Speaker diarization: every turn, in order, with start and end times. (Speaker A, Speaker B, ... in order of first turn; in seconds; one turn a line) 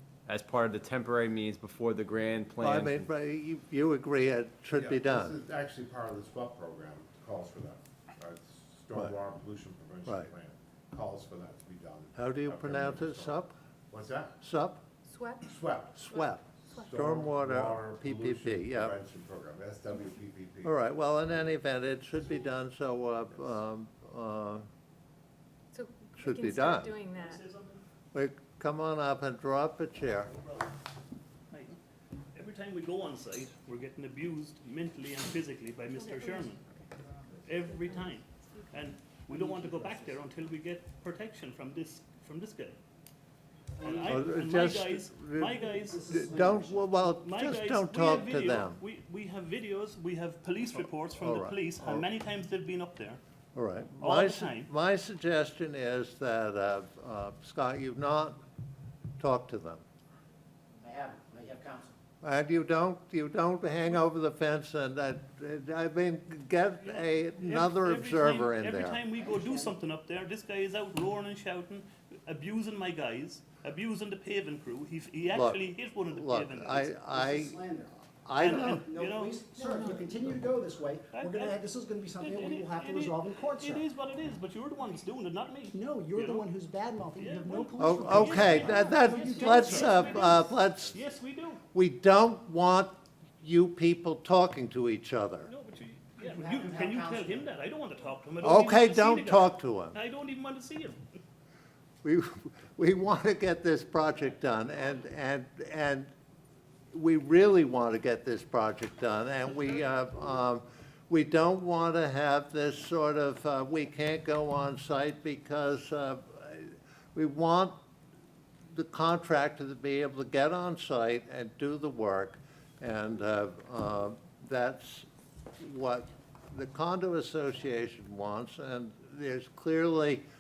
Speaker A: 0.3-3.1
Speaker B: 2.6-5.4
Speaker C: 4.7-14.4
Speaker B: 12.1-13.5
Speaker B: 14.4-14.8
Speaker D: 15.1-15.4
Speaker C: 15.4-16.1
Speaker B: 16.0-18.9
Speaker D: 16.2-16.8
Speaker C: 16.7-20.7
Speaker B: 20.6-24.6
Speaker D: 25.7-27.4
Speaker B: 26.1-27.0
Speaker E: 27.1-27.8
Speaker B: 28.1-30.3
Speaker E: 30.3-30.7
Speaker E: 31.5-31.8
Speaker E: 32.3-36.6
Speaker D: 35.9-36.6
Speaker D: 37.4-38.9
Speaker E: 37.4-42.8
Speaker F: 39.3-40.2
Speaker F: 43.7-44.4
Speaker E: 43.8-46.1
Speaker B: 44.0-48.8
Speaker F: 45.4-47.0
Speaker E: 47.2-53.2
Speaker B: 50.7-52.1
Speaker B: 53.5-58.4
Speaker E: 54.0-54.7
Speaker B: 59.2-59.8
Speaker F: 60.8-62.0
Speaker B: 62.2-69.0
Speaker E: 67.4-77.0
Speaker F: 69.1-69.8
Speaker B: 75.3-77.6
Speaker F: 77.0-78.1
Speaker B: 78.1-78.8
Speaker E: 78.4-79.5
Speaker F: 78.8-83.9
Speaker D: 79.5-80.0
Speaker E: 81.1-81.6
Speaker E: 82.2-86.5
Speaker F: 85.7-90.5
Speaker E: 87.2-91.6
Speaker B: 87.8-91.0
Speaker B: 91.7-95.5
Speaker E: 95.5-101.0
Speaker F: 96.2-97.5
Speaker B: 98.4-100.0
Speaker B: 102.0-106.1
Speaker B: 106.9-117.8
Speaker B: 118.6-130.2